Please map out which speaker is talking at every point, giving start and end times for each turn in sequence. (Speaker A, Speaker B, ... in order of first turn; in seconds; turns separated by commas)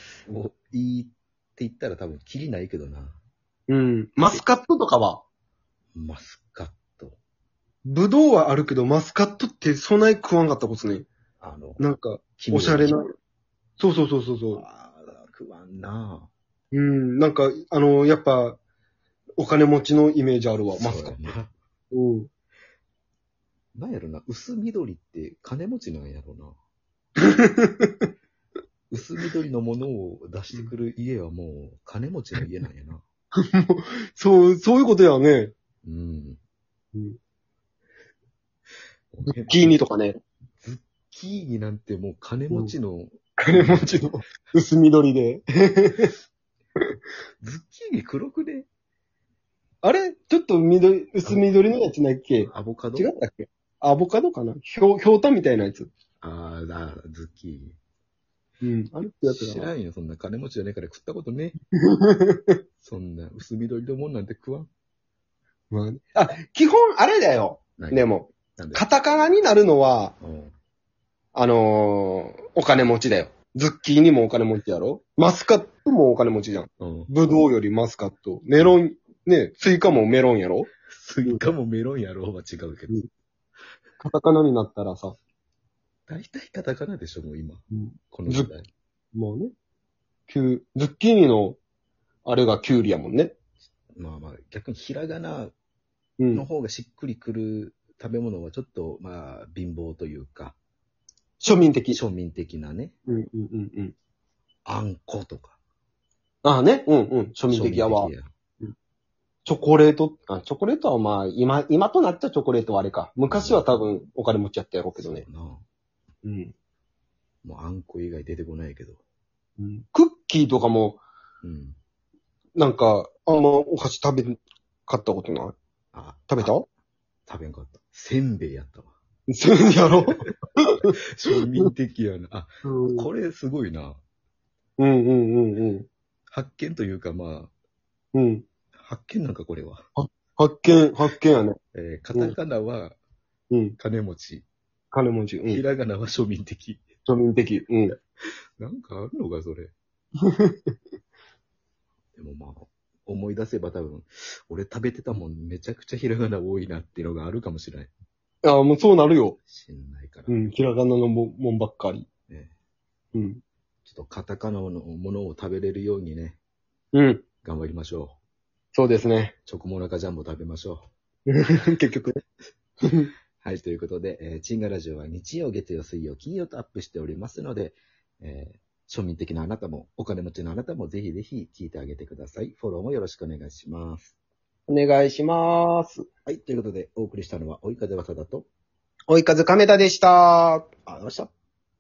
Speaker A: 0.3-3.2, Speaker B: 3.7-5.2, Speaker A: 6.0-7.2, Speaker B: 7.8-11.1, Speaker A: 11.4-11.8, Speaker B: 11.8-13.1, Speaker A: 12.4-12.9, Speaker B: 13.8-14.7, Speaker A: 14.6-16.3, Speaker B: 16.7-18.6, Speaker B: 19.4-21.3, Speaker A: 20.7-21.5, Speaker B: 21.9-22.3, Speaker A: 23.8-26.6, Speaker B: 27.2-28.1, Speaker A: 28.9-33.0, Speaker B: 33.4-35.5, Speaker A: 35.8-36.4, Speaker A: 39.1-39.8, Speaker B: 39.5-40.2, Speaker A: 40.6-44.1, Speaker B: 43.4-46.1, Speaker A: 47.4-48.7, Speaker B: 49.8-55.9, Speaker A: 52.5-53.1, Speaker A: 56.2-57.8, Speaker B: 58.6-59.7, Speaker A: 59.2-61.6, Speaker B: 61.8-62.6, Speaker A: 62.8-64.7, Speaker B: 65.7-70.1, Speaker A: 67.8-68.8, Speaker A: 70.2-70.5, Speaker B: 71.3-80.7, Speaker A: 76.8-77.1, Speaker A: 80.9-82.9, Speaker B: 84.0-85.2, Speaker A: 86.1-88.7, Speaker B: 87.7-88.5, Speaker B: 89.1-89.5, Speaker B: 90.3-91.6, Speaker B: 92.2-93.3, Speaker A: 94.0-95.5, Speaker B: 96.2-96.5, Speaker A: 96.3-100.6, Speaker B: 101.4-102.0, Speaker A: 101.9-103.0, Speaker B: 103.1-104.0, Speaker A: 104.7-105.6, Speaker B: 106.4-108.7, Speaker A: 107.5-108.3, Speaker B: 109.5-115.2, Speaker A: 113.3-113.8, Speaker A: 115.0-115.6, Speaker B: 116.2-116.5, Speaker A: 117.4-119.0, Speaker B: 119.6-121.0, Speaker A: 121.4-121.8, Speaker B: 122.6-125.5, Speaker A: 125.9-126.5, Speaker B: 126.3-126.7, Speaker A: 127.3-128.9, Speaker B: 129.3-130.9, Speaker A: 130.8-134.0, Speaker B: 132.6-133.1, Speaker B: 134.8-135.9, Speaker A: 136.3-137.5, Speaker B: 138.1-138.5, Speaker A: 138.8-139.8, Speaker B: 140.0-141.6, Speaker A: 141.7-143.0, Speaker B: 143.5-143.8, Speaker A: 143.8-144.5, Speaker B: 144.9-145.6, Speaker A: 145.5-146.8, Speaker B: 147.1-148.0, Speaker A: 148.6-149.7, Speaker B: 150.2-150.7, Speaker A: 152.2-157.9, Speaker B: 158.4-159.4, Speaker A: 159.5-160.3, Speaker B: 160.3-162.1, Speaker B: 163.2-163.4, Speaker A: 163.8-166.4, Speaker B: 166.9-167.2, Speaker A: 167.4-168.2, Speaker B: 168.7-169.3, Speaker A: 169.5-170.9, Speaker B: 171.3-172.2, Speaker B: 172.8-173.1, Speaker A: 173.4-184.2, Speaker B: 184.7-186.1, Speaker A: 186.3-188.5, Speaker B: 189.1-190.7, Speaker A: 190.9-191.3